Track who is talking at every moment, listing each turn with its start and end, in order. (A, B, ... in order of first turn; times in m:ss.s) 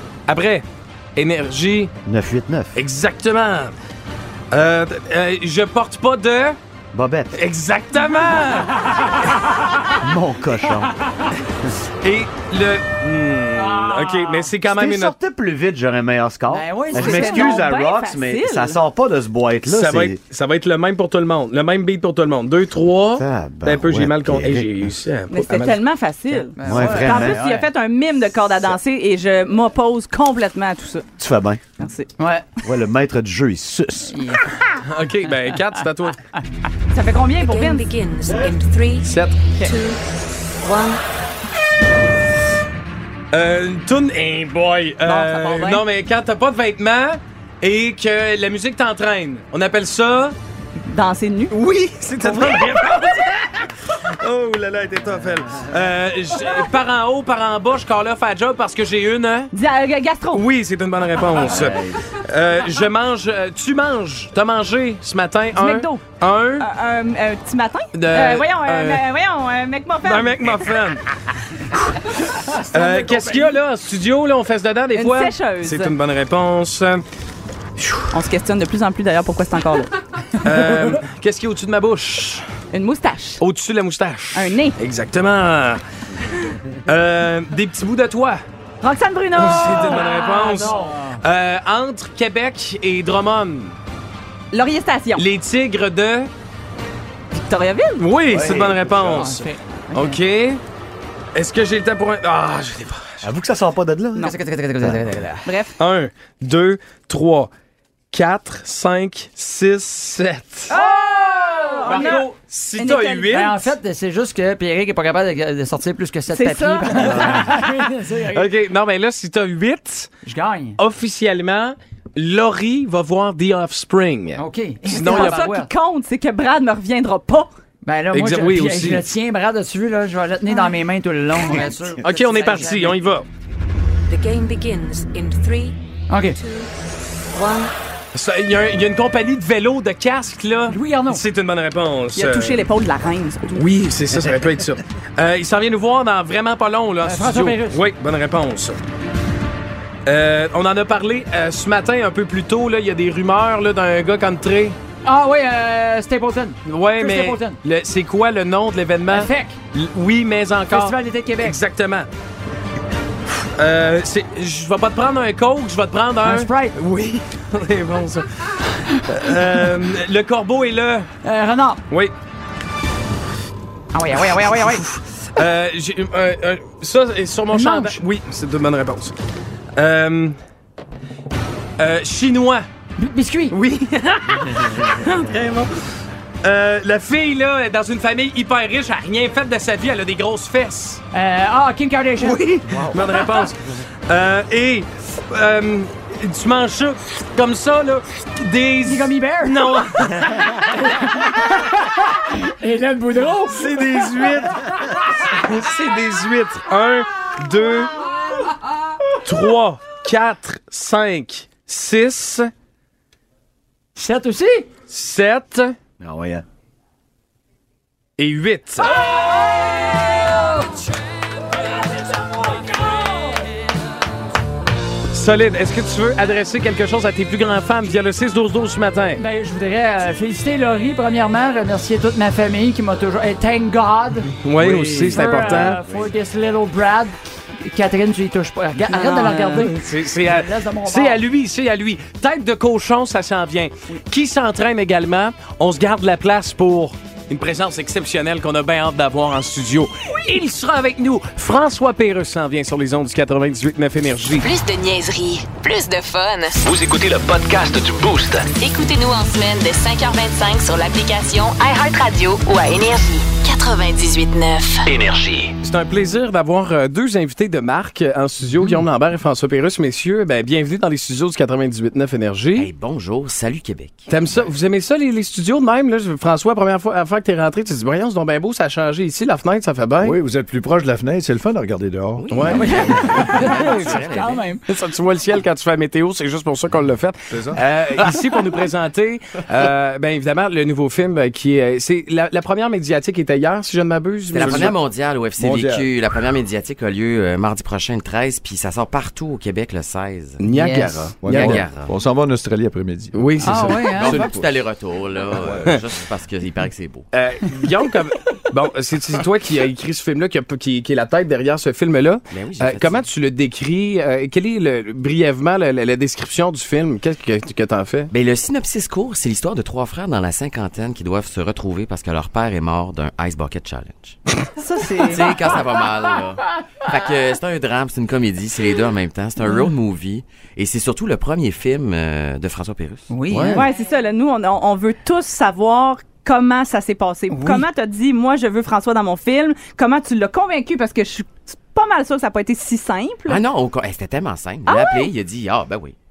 0:00.3-0:00.6 A
0:01.2-0:01.9 A
0:02.0-0:02.8 B
0:02.7-0:03.7 A
0:04.5-0:06.6 A
0:06.9-0:07.3 B
0:07.3-0:08.8 A
0:10.0-0:10.9 B
0:12.0-0:15.2 A
0:14.6-0:20.2 B
0:16.5-0:17.7 C
0:17.0-0:18.8 D
0:19.6-0:25.8 A
0:23.2-0:24.8 B
0:25.3-0:31.1 D
0:26.6-0:27.7 C
0:26.6-0:27.4 B
0:31.2-0:31.6 B
0:31.8-0:32.1 D
0:32.2-0:32.4 C
0:32.6-0:34.1 B
0:34.1-0:34.5 C
0:34.8-0:36.2 A
0:36.9-0:37.8 D
0:37.4-0:39.1 E
0:39.0-0:39.4 A
0:39.6-0:40.0 E
0:40.6-0:41.0 E
0:43.3-0:50.3 A
0:45.0-0:45.8 D
0:50.9-0:51.5 D
0:51.5-0:59.5 A
0:52.2-0:52.7 D
0:59.5-1:00.4 D
1:00.3-1:06.7 A
1:01.4-1:01.9 B
1:05.5-1:06.0 D
1:06.6-1:10.6 D
1:07.9-1:09.0 A
1:10.0-1:11.0 A
1:12.7-1:17.0 A
1:14.9-1:16.0 D
1:18.1-1:20.0 D
1:20.4-1:22.4 A
1:22.7-1:23.4 D
1:23.4-1:25.8 A
1:24.3-1:24.8 D
1:26.7-1:28.4 A
1:28.8-1:30.5 D
1:29.3-1:33.7 A
1:30.2-1:31.2 C
1:34.5-1:35.2 D
1:35.2-1:36.3 A
1:37.3-1:38.1 D
1:38.0-1:40.6 A
1:38.2-1:39.3 B
1:39.1-1:40.2 C
1:41.3-1:43.2 A
1:43.2-1:44.3 B
1:44.2-1:45.5 C
1:44.8-1:45.2 B
1:45.4-1:45.8 D
1:45.8-1:47.5 A
1:48.1-1:50.7 A
1:50.7-1:53.4 D
1:50.7-1:52.3 C
1:51.8-1:53.7 A
1:53.3-1:58.5 C
1:56.3-1:57.5 D
1:58.3-2:00.1 A
2:00.2-2:00.8 C
2:00.8-2:05.5 A
2:04.4-2:05.7 C
2:04.9-2:07.5 D
2:07.8-2:13.0 C
2:08.1-2:09.0 A
2:12.0-2:13.2 A
2:14.1-2:15.8 E
2:16.1-2:16.4 C
2:16.3-2:16.7 E
2:17.3-2:17.7 E
2:18.1-2:22.6 A
2:20.7-2:21.2 C
2:22.1-2:23.6 D
2:23.6-2:28.8 A
2:27.0-2:27.8 C
2:30.0-2:34.8 A
2:35.0-2:37.6 C
2:36.6-2:42.1 A
2:39.1-2:39.6 C
2:40.7-2:41.6 C
2:43.6-2:51.1 A
2:46.2-2:46.8 C
2:51.2-2:51.8 C
2:53.9-2:54.8 C
2:54.4-2:59.1 A
2:57.5-2:58.0 C
2:59.8-3:00.4 A
3:01.8-3:02.6 A
3:03.0-3:03.6 C
3:03.5-3:05.7 A
3:06.4-3:11.0 A
3:11.1-3:12.4 C
3:12.2-3:20.6 A
3:12.6-3:13.0 B
3:18.8-3:19.8 C
3:20.5-3:23.7 C
3:23.5-3:28.0 A
3:29.2-3:32.5 A
3:34.0-3:34.7 C
3:34.9-3:35.8 A
3:36.0-3:36.4 B
3:38.2-3:38.9 A
3:45.1-3:49.2 A
3:49.2-4:01.2 C
3:54.4-3:55.8 A
3:55.4-3:56.0 B
3:59.0-3:59.5 D
3:59.1-4:14.5 A
4:14.4-4:16.6 F
4:16.6-4:18.5 G
4:18.6-4:24.8 F
4:24.8-4:25.5 G
4:25.6-4:32.7 A
4:32.5-4:34.5 H
4:34.1-4:40.2 A
4:40.0-4:42.5 I
4:42.2-4:44.4 H
4:42.3-4:44.0 A
4:42.5-4:44.6 C
4:44.7-4:54.7 A
4:47.3-4:47.6 I
4:54.3-5:00.4 H
4:54.4-4:54.8 I
4:55.4-4:55.9 I
5:00.4-5:01.6 A
5:00.5-5:01.1 C
5:01.2-5:03.7 I
5:01.3-5:01.9 H
5:03.1-5:04.3 A
5:03.4-5:04.3 C
5:03.9-5:07.1 H
5:05.3-5:05.8 I
5:07.1-5:18.1 A
5:12.3-5:13.0 H
5:18.1-5:24.2 H
5:24.6-5:25.4 D
5:25.0-5:33.1 H
5:33.1-5:33.6 C
5:33.3-5:33.6 A
5:33.5-5:43.4 D
5:37.3-5:37.6 C
5:43.3-5:45.9 H
5:44.7-5:45.1 D